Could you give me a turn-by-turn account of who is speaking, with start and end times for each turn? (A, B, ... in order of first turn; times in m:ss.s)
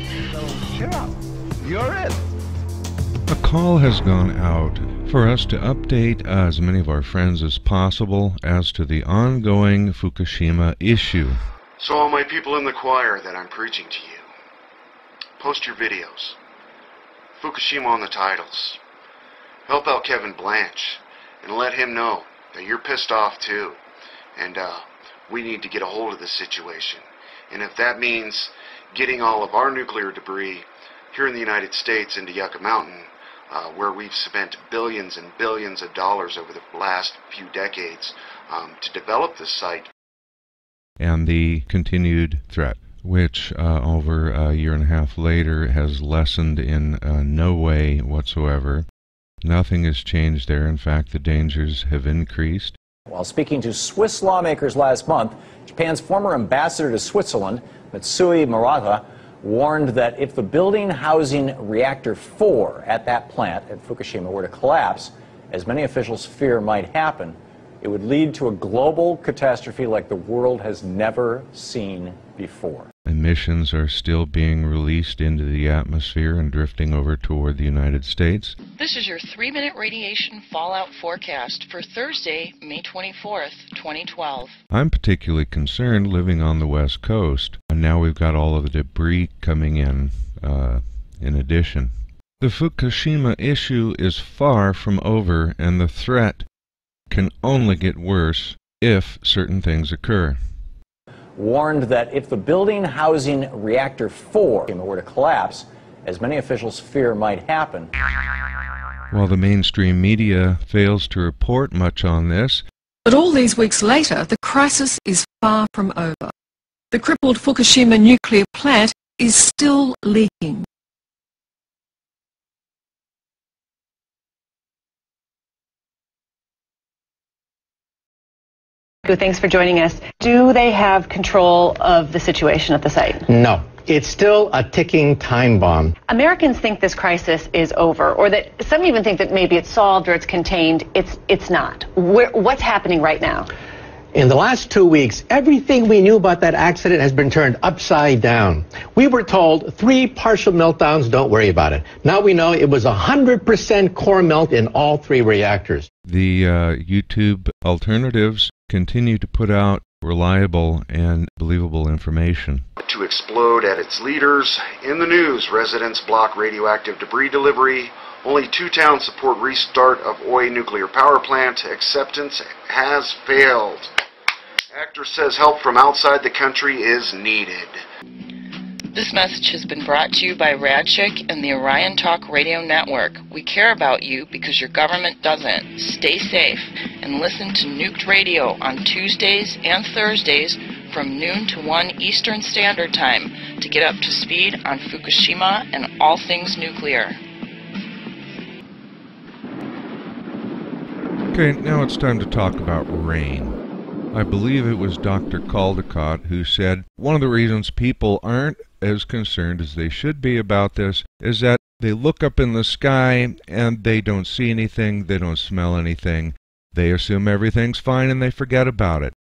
0:00.7-0:01.1 A
0:01.7-0:02.1 A
0:03.3-0:11.4 B
0:11.8-0:14.3 C
0:15.4-0:16.4 C
0:17.4-0:18.8 C
0:19.7-0:23.8 C
0:24.4-0:39.9 C
0:41.0-0:48.9 B
0:49.4-0:52.8 B
0:53.1-1:12.9 D
1:13.1-1:18.6 B
1:18.8-1:24.5 E
1:24.7-1:36.5 B
1:37.1-1:40.4 B
1:41.4-1:47.9 D
1:49.1-1:52.6 B
1:53.1-1:56.3 F
1:56.9-2:00.7 F
2:09.1-2:13.3 G
2:13.3-2:16.0 A
2:16.1-2:23.5 G
2:24.1-2:35.9 A
2:36.1-2:42.7 B
2:42.8-2:53.9 C
2:54.7-2:57.8 C
2:58.9-3:17.2 E
3:21.3-3:23.6 B
3:24.1-3:39.1 B